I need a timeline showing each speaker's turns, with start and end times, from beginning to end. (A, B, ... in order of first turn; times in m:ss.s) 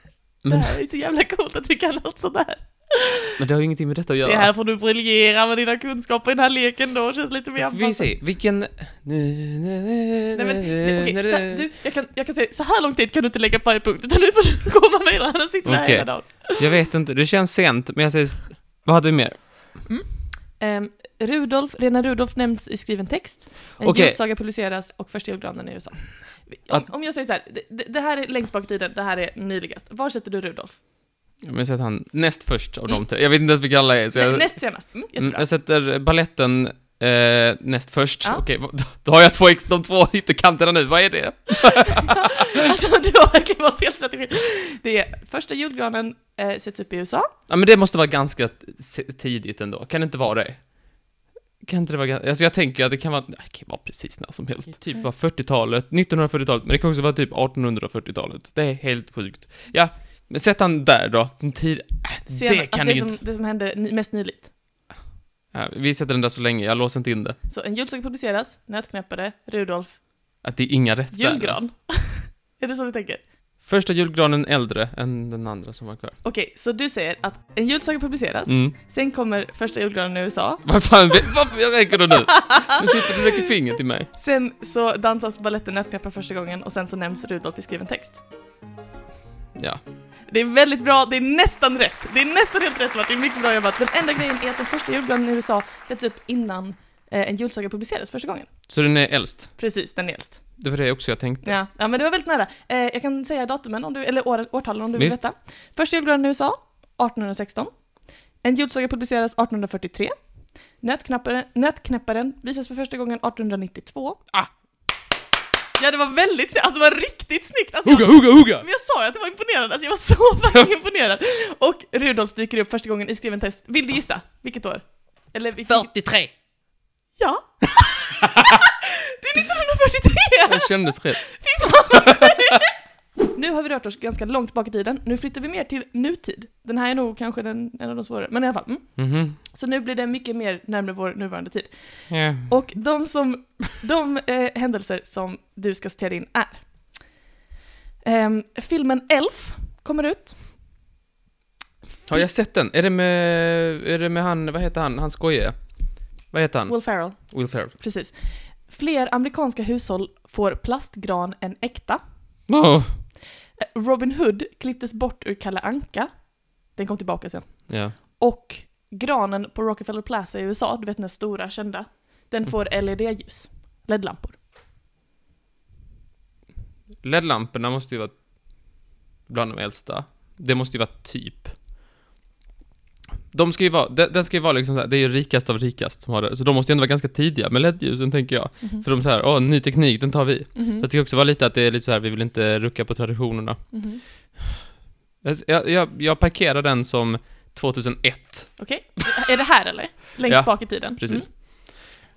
0:00.4-0:00.7 A
0:00.4-0:03.3 B
0:03.4-0:04.5 A
0:04.2-0:08.1 B
0:07.6-0:11.6 A
0:10.3-0:16.6 B
0:15.6-0:19.5 A
0:19.9-0:30.8 B
0:23.8-0:24.2 A
0:31.4-0:42.4 A
0:34.2-0:35.5 B
0:42.0-0:47.3 B
0:47.5-0:50.8 A
0:51.6-1:03.2 A
1:02.3-1:04.5 B
1:05.5-1:07.4 A
1:07.5-1:10.0 B
1:10.4-1:11.6 A
1:11.1-1:13.2 B
1:13.6-1:16.1 A
1:16.2-1:20.6 B
1:18.5-1:18.7 A
1:20.6-1:24.1 A
1:22.3-1:23.1 B
1:24.1-1:28.2 B
1:30.3-1:38.5 B
1:38.7-1:39.6 A
1:39.6-1:40.4 B
1:40.6-1:41.6 A
1:41.4-1:47.7 B
1:45.0-1:45.2 A
1:48.4-1:50.1 B
1:50.8-1:54.2 B
1:55.8-2:05.9 B
1:57.8-1:58.6 A
2:05.7-2:06.3 A
2:07.2-2:12.8 B
2:10.4-2:12.6 A
2:13.3-2:27.0 B
2:19.0-2:19.4 A
2:22.1-2:22.5 A
2:28.0-2:30.4 B
2:32.1-2:37.7 A
2:36.7-2:42.0 B
2:42.5-2:43.0 A
2:43.6-2:54.4 B
2:47.7-2:47.9 A
2:57.0-3:01.6 A
3:03.3-3:13.7 A
3:10.5-3:10.8 B
3:13.7-3:14.0 B
3:15.2-3:18.8 A
3:18.6-3:21.3 B
3:20.2-3:21.9 A